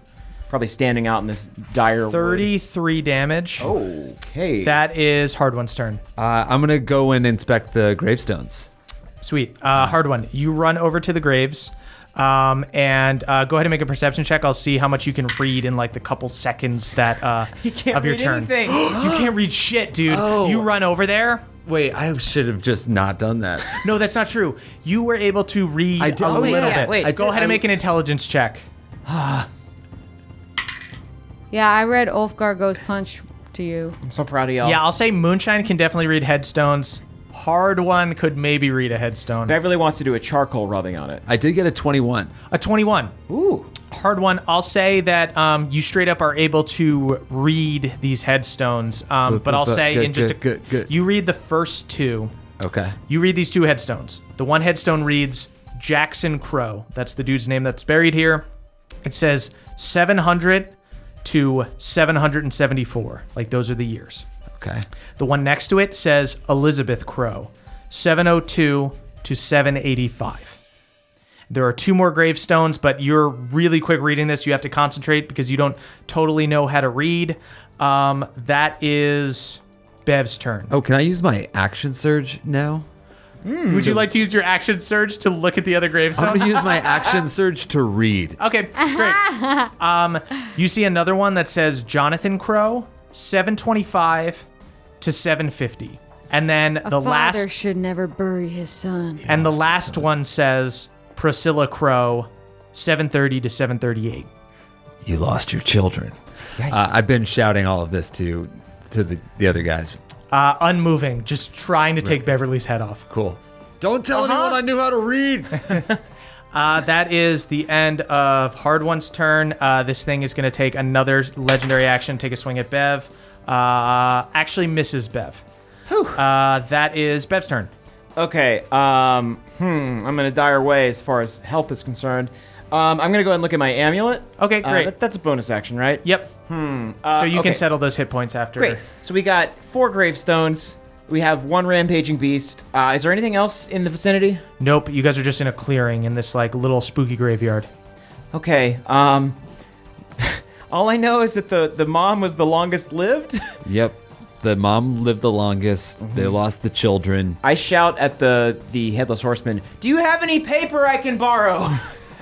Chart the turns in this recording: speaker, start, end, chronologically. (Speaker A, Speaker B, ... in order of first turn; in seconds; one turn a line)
Speaker A: 0.5-2.5
Speaker B: 2.1-3.7
Speaker A: 3.6-4.8
Speaker B: 4.6-6.0
Speaker C: 6.2-8.7
Speaker B: 9.2-21.5
Speaker A: 17.6-18.9
Speaker C: 18.8-19.4
Speaker C: 20.1-20.7
Speaker C: 21.6-23.8
Speaker B: 23.7-28.6
Speaker C: 26.0-27.4
Speaker A: 26.2-27.6
Speaker A: 29.1-29.5
Speaker D: 31.5-34.0
Speaker A: 34.0-34.8
Speaker B: 34.6-39.6
Speaker A: 39.5-41.2
Speaker C: 41.2-42.3
Speaker B: 42.5-43.1
Speaker A: 43.3-43.7
Speaker B: 43.9-52.3
Speaker C: 49.2-50.9
Speaker C: 52.6-53.0
Speaker B: 53.1-58.5
Speaker B: 59.0-64.2
Speaker C: 64.5-64.8
Speaker B: 65.2-70.6
Speaker B: 71.5-80.7
Speaker C: 80.7-82.8
Speaker A: 83.4-84.0
Speaker B: 83.7-86.7
Speaker C: 86.1-88.4
Speaker B: 88.4-94.5
Speaker D: 88.8-89.7
Speaker B: 95.0-97.5
Speaker D: 96.8-99.2
Speaker C: 99.2-100.1
Speaker B: 99.3-104.3
Speaker C: 105.0-110.0
Speaker A: 106.6-106.9
Speaker B: 110.3-113.0
Speaker C: 112.0-112.3
Speaker C: 113.1-115.8
Speaker A: 114.1-114.5
Speaker B: 116.5-125.4
Speaker A: 125.9-126.2
Speaker B: 126.1-127.7
Speaker A: 128.2-137.6
Speaker B: 134.4-134.9
Speaker B: 136.0-136.3
Speaker B: 137.1-138.8
Speaker A: 138.6-144.4
Speaker B: 144.6-147.7
Speaker A: 148.3-149.4
Speaker A: 150.2-153.6
Speaker C: 153.6-157.4
Speaker A: 156.0-156.4
Speaker A: 157.4-161.9